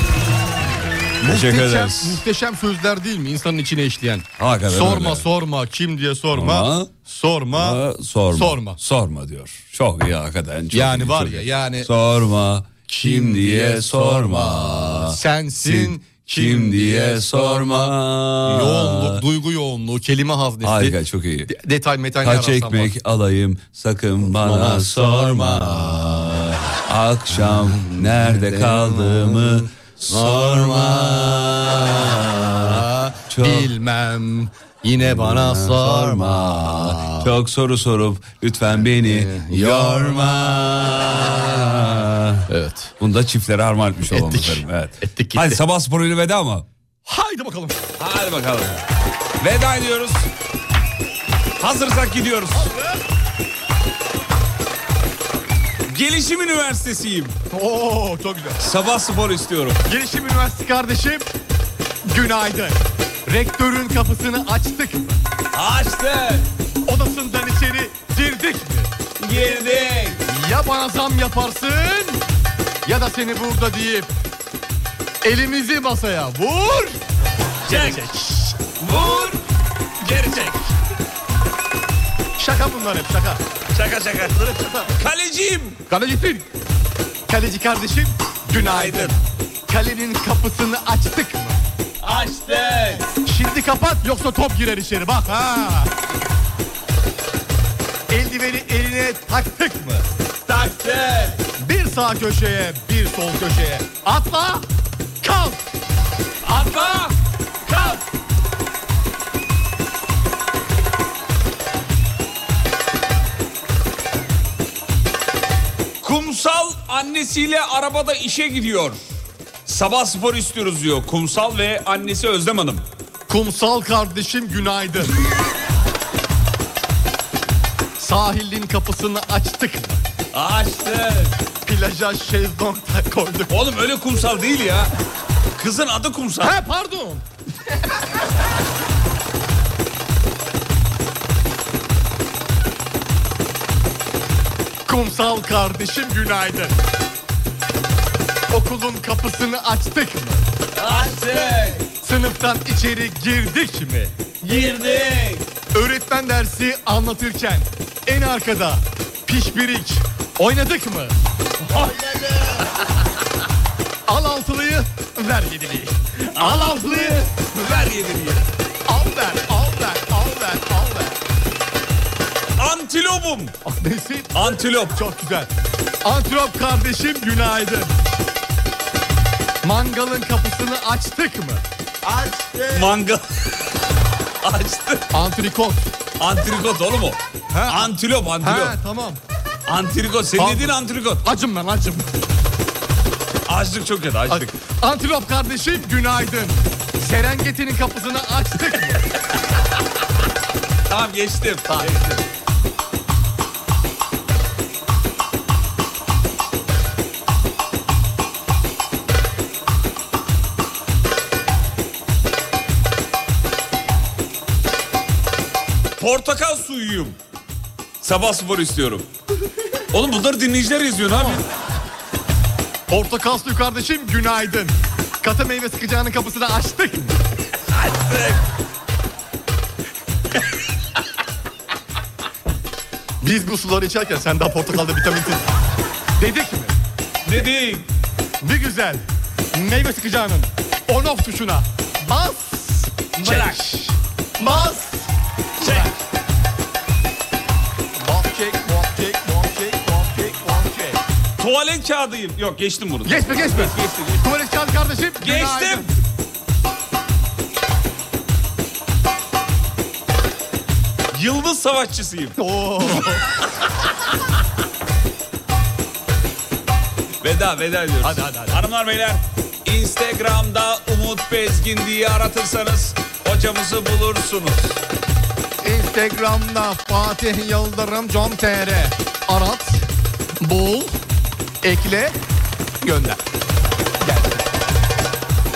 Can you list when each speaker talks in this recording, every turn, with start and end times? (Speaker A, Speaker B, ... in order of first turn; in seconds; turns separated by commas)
Speaker A: 1.2-2.2, Speaker B: 1.2-7.8, Speaker A: 4.4-5.2, Speaker A: 6.3-6.9, Speaker A: 7.5-19.2, Speaker B: 8.3-8.8, Speaker B: 10.7-11.9, Speaker B: 12.9-21.0, Speaker A: 20.6-21.5, Speaker B: 21.5-22.9, Speaker A: 22.2-33.7, Speaker B: 24.4-26.1, Speaker B: 27.4-31.9, Speaker B: 32.5-37.3, Speaker A: 35.0-42.5, Speaker B: 38.7-40.4, Speaker B: 42.5-42.9, Speaker A: 43.0-46.6, Speaker B: 44.1-45.6, Speaker B: 47.0-47.8, Speaker A: 48.0-48.9, Speaker A: 49.4-50.3, Speaker A: 51.6-52.7, Speaker B: 52.6-52.9, Speaker A: 55.9-57.3, Speaker B: 57.5-58.6, Speaker A: 58.6-59.8, Speaker B: 59.9-61.3, Speaker B: 62.0-65.2, Speaker A: 65.5-66.5, Speaker B: 66.8-68.9, Speaker A: 69.2-70.2, Speaker B: 70.3-72.2, Speaker B: 72.8-74.1, Speaker B: 75.2-77.0, Speaker A: 77.7-78.1, Speaker B: 77.7-78.6, Speaker A: 78.8-79.4, Speaker A: 80.0-80.5, Speaker B: 80.2-80.5, Speaker B: 82.4-83.4, Speaker A: 83.7-84.4, Speaker B: 84.4-84.9, Speaker A: 85.0-85.8, Speaker B: 85.9-86.5, Speaker B: 87.3-91.6, Speaker A: 88.5-89.2, Speaker A: 92.0-93.0, Speaker B: 93.1-95.9, Speaker B: 98.1-100.0, Speaker A: 100.5-101.4, Speaker B: 101.5-104.7, Speaker B: 105.2-105.6, Speaker B: 106.5-107.1, Speaker A: 106.5-107.1, Speaker B: 107.7-108.0, Speaker A: 116.0-119.0, Speaker A: 119.7-122.8, Speaker B: 123.3-125.1, Speaker B: 128.0-130.0, Speaker A: 130.3-131.3, Speaker B: 131.6-133.5, Speaker A: 133.5-134.9, Speaker A: 135.6-136.6, Speaker B: 136.4-137.2, Speaker B: 144.9-146.8, Speaker B: 148.5-150.4, Speaker A: 150.8-151.8, Speaker B: 151.9-154.1, Speaker A: 154.4-155.4, Speaker B: 155.7-161.1, Speaker A: 161.6-162.7, Speaker B: 164.1-167.4, Speaker A: 166.3-168.4, Speaker B: 168.8-171.2, Speaker A: 172.6-173.6, Speaker B: 173.6-174.4, Speaker A: 174.3-175.0, Speaker B: 174.9-175.5, Speaker B: 176.0-178.0, Speaker B: 179.6-182.9, Speaker A: 182.7-183.7, Speaker A: 184.4-185.1, Speaker B: 185.1-185.9, Speaker A: 186.2-188.8, Speaker B: 187.5-189.2, Speaker A: 189.7-191.2, Speaker B: 190.3-192.1, Speaker A: 193.5-194.5, Speaker B: 194.3-199.0, Speaker A: 200.9-202.0, Speaker B: 201.7-202.2, Speaker A: 216.0-217.2, Speaker A: 218.0-219.1, Speaker A: 219.9-221.4, Speaker B: 222.9-227.2, Speaker A: 227.7-228.4, Speaker B: 233.2-235.5, Speaker B: 236.2-236.8, Speaker A: 237.2-237.9, Speaker B: 238.4-245.1, Speaker A: 243.2-243.7, Speaker B: 245.6-245.9, Speaker A: 245.6-245.9, Speaker B: 248.0-251.0, Speaker A: 251.4-254.2, Speaker B: 253.0-255.9, Speaker A: 255.2-255.9, Speaker A: 261.1-262.4, Speaker B: 262.4-263.4, Speaker A: 267.2-274.8, Speaker B: 268.0-268.6, Speaker B: 275.6-279.9, Speaker B: 280.4-281.0, Speaker B: 281.6-282.2, Speaker B: 282.8-283.2, Speaker B: 284.0-284.4